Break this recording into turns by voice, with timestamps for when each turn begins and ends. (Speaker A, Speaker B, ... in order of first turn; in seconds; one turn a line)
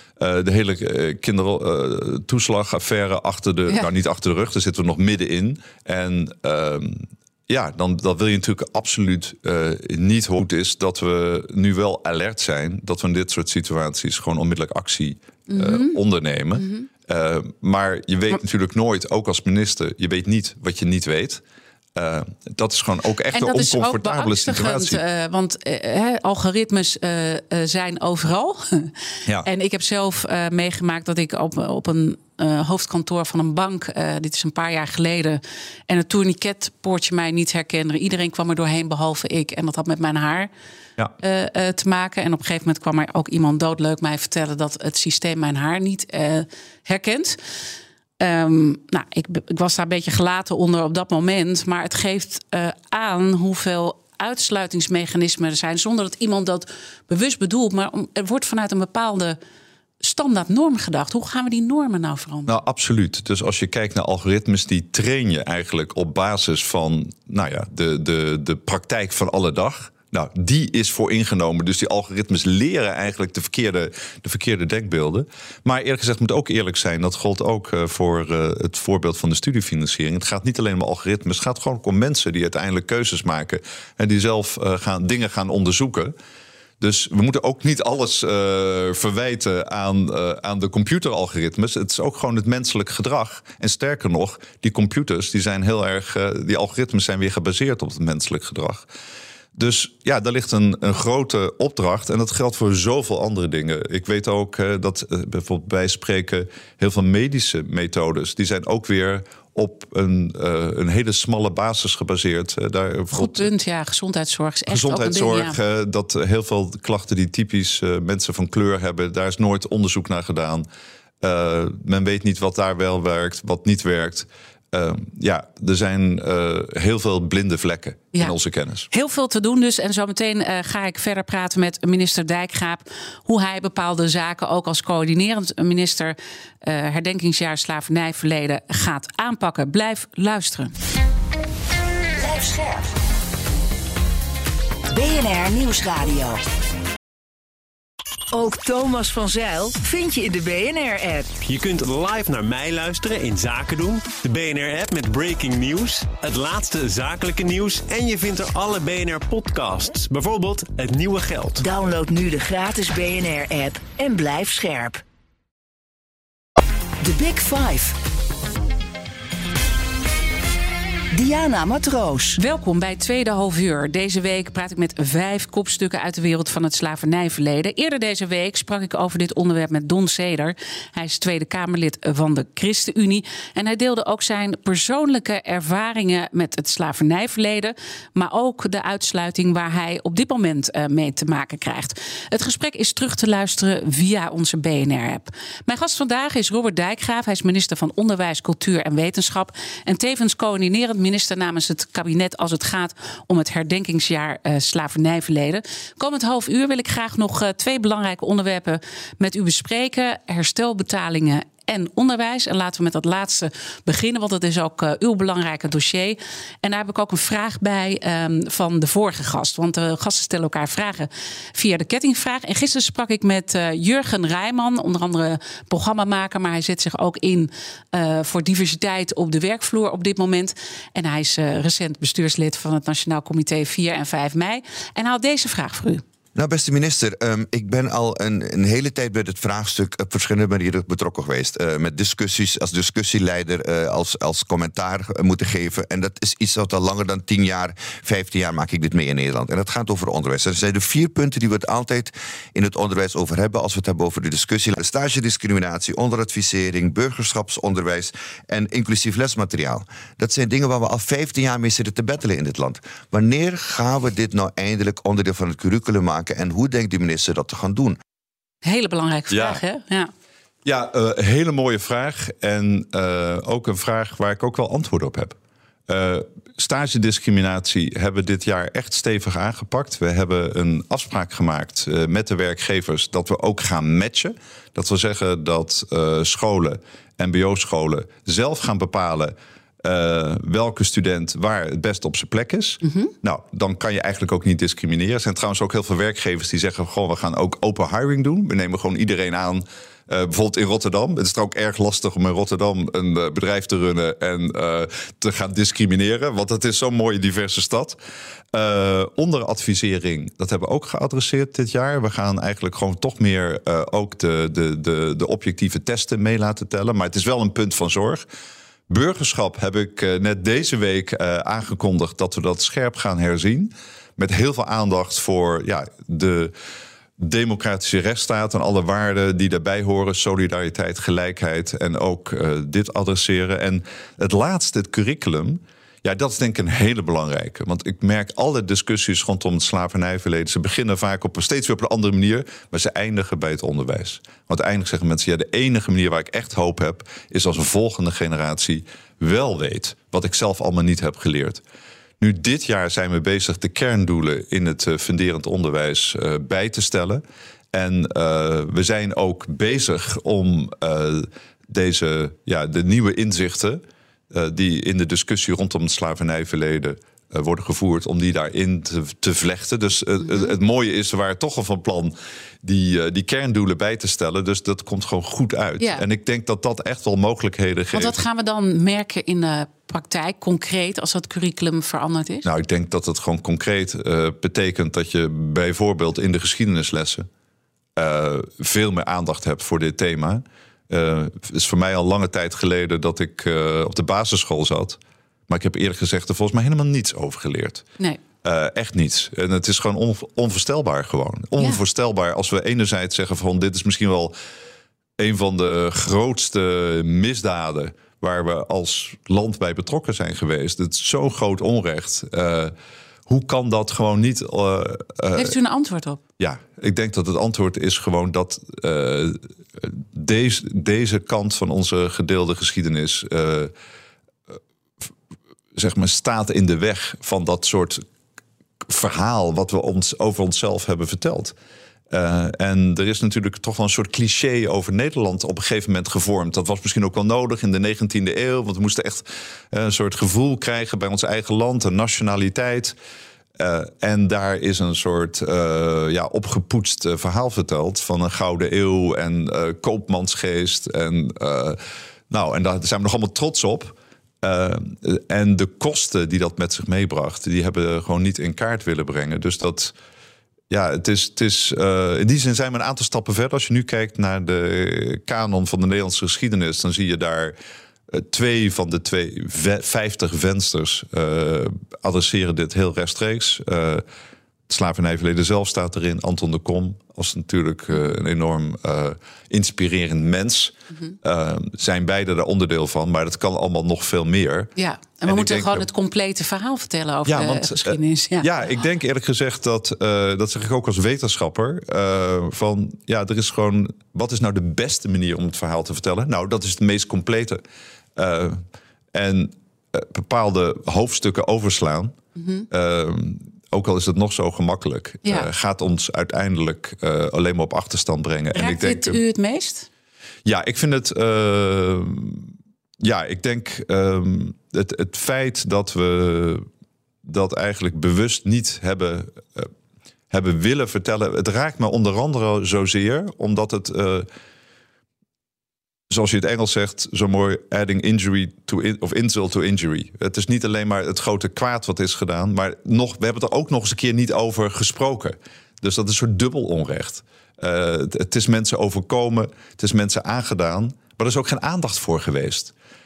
Speaker A: 0.2-21.4
Speaker B: 15.5-16.0
Speaker B: 16.6-16.9
Speaker A: 21.9-25.0
Speaker B: 23.3-28.9
Speaker B: 29.4-40.5
Speaker B: 41.2-47.4
Speaker B: 48.2-59.4
Speaker B: 60.0-62.5
Speaker A: 62.5-86.2
Speaker A: 86.8-98.9
Speaker A: 99.5-113.5
Speaker B: 113.1-115.6
Speaker A: 114.7-120.7
Speaker A: 121.2-128.9
Speaker B: 128.9-140.7
Speaker C: 142.2-142.9
Speaker C: 144.9-146.4
Speaker C: 148.3-151.3
Speaker D: 151.4-161.6
Speaker C: 161.6-165.0
Speaker C: 167.0-168.0
Speaker C: 171.1-172.4
Speaker B: 172.4-236.0
Speaker E: 236.3-268.0
Speaker B: 268.6-270.1
Speaker A: 269.3-269.6
Speaker A: 270.6-275.4
Speaker A: 275.9-308.0
Speaker B: 292.8-293.1
Speaker A: 308.5-318.2
Speaker A: 318.9-326.5
Speaker A: 327.2-351.6
Speaker A: 352.2-378.2
Speaker B: 370.3-370.5
Speaker B: 375.8-376.1
Speaker B: 377.9-382.5
Speaker A: 382.4-387.3
Speaker A: 388.0-397.9
Speaker A: 398.4-404.4
Speaker A: 405.2-412.7
Speaker A: 413.3-415.6
Speaker B: 415.4-416.2
Speaker A: 416.4-423.7
Speaker A: 425.8-428.0
Speaker A: 428.8-431.6
Speaker A: 432.1-443.0
Speaker A: 443.6-451.8
Speaker A: 452.3-459.9
Speaker A: 460.7-467.6
Speaker A: 468.1-474.1
Speaker A: 474.7-484.7
Speaker B: 484.8-488.5
Speaker A: 485.2-485.9
Speaker A: 487.3-497.6
Speaker A: 498.2-498.6
Speaker A: 499.1-502.2
Speaker B: 502.4-502.7
Speaker A: 502.7-509.2
Speaker B: 508.5-509.9
Speaker A: 510.4-516.7
Speaker A: 517.2-519.7
Speaker A: 520.3-524.3
Speaker A: 526.1-542.7